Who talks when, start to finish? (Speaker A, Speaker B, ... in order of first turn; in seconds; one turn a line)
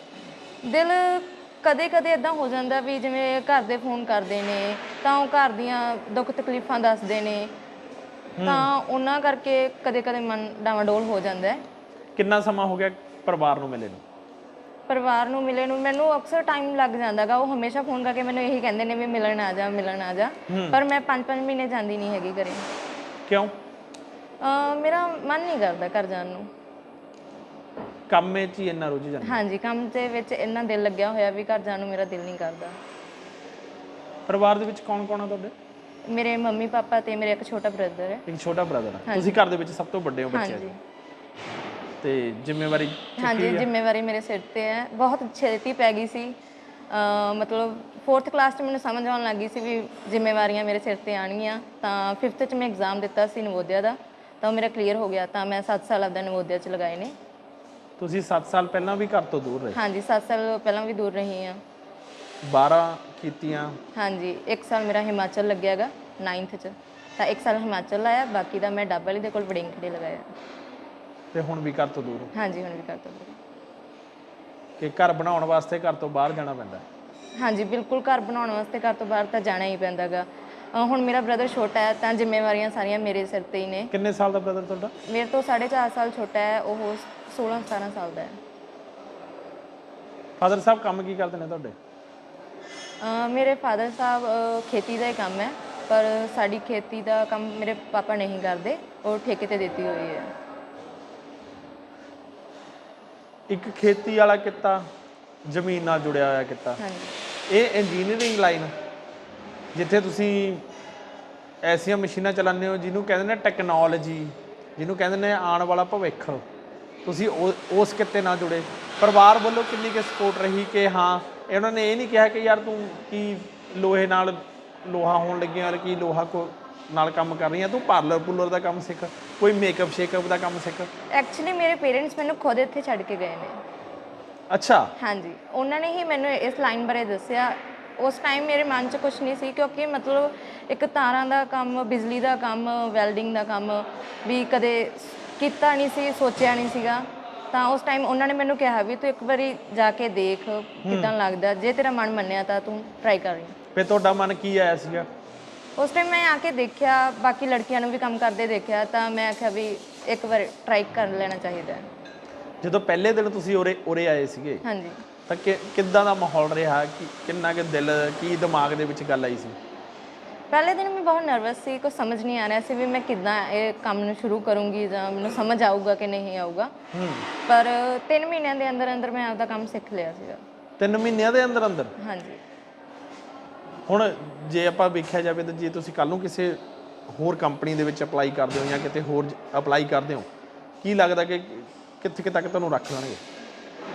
Speaker A: 0.6-7.5
Speaker B: 8.4-8.7
Speaker A: 8.4-11.6
Speaker B: 12.2-14.0
Speaker A: 14.9-22.7
Speaker B: 20.5-20.8
Speaker B: 23.3-23.5
Speaker A: 24.4-26.5
Speaker B: 28.1-29.4
Speaker A: 29.2-32.8
Speaker B: 34.3-35.5
Speaker A: 36.1-38.2
Speaker B: 38.3-40.7
Speaker A: 39.1-39.3
Speaker A: 40.3-40.8
Speaker B: 42.0-43.7
Speaker A: 43.2-46.4
Speaker A: 46.9-57.1
Speaker B: 58.0-59.8
Speaker A: 59.7-61.6
Speaker B: 62.4-63.8
Speaker A: 64.0-70.3
Speaker B: 71.3-72.3
Speaker A: 72.3-73.4
Speaker B: 74.8-76.8
Speaker A: 77.4-83.9
Speaker B: 83.9-84.9
Speaker A: 85.0-88.4
Speaker B: 90.4-91.8
Speaker A: 93.0-100.3
Speaker B: 103.5-104.9
Speaker B: 105.5-106.8
Speaker A: 106.8-107.2
Speaker B: 107.5-108.7
Speaker B: 109.8-110.7
Speaker B: 111.6-116.4
Speaker B: 117.0-130.9
Speaker A: 131.1-133.6
Speaker B: 134.5-134.9
Speaker A: 135.0-153.6
Speaker B: 150.8-151.1
Speaker B: 153.8-155.1
Speaker A: 155.8-161.9
Speaker B: 162.6-164.6
Speaker A: 164.6-165.0
Speaker B: 165.3-169.6
Speaker A: 170.5-176.7
Speaker B: 176.9-177.3
Speaker A: 177.4-180.4
Speaker B: 180.8-181.9
Speaker A: 182.0-182.4
Speaker B: 183.9-190.3
Speaker B: 190.8-193.2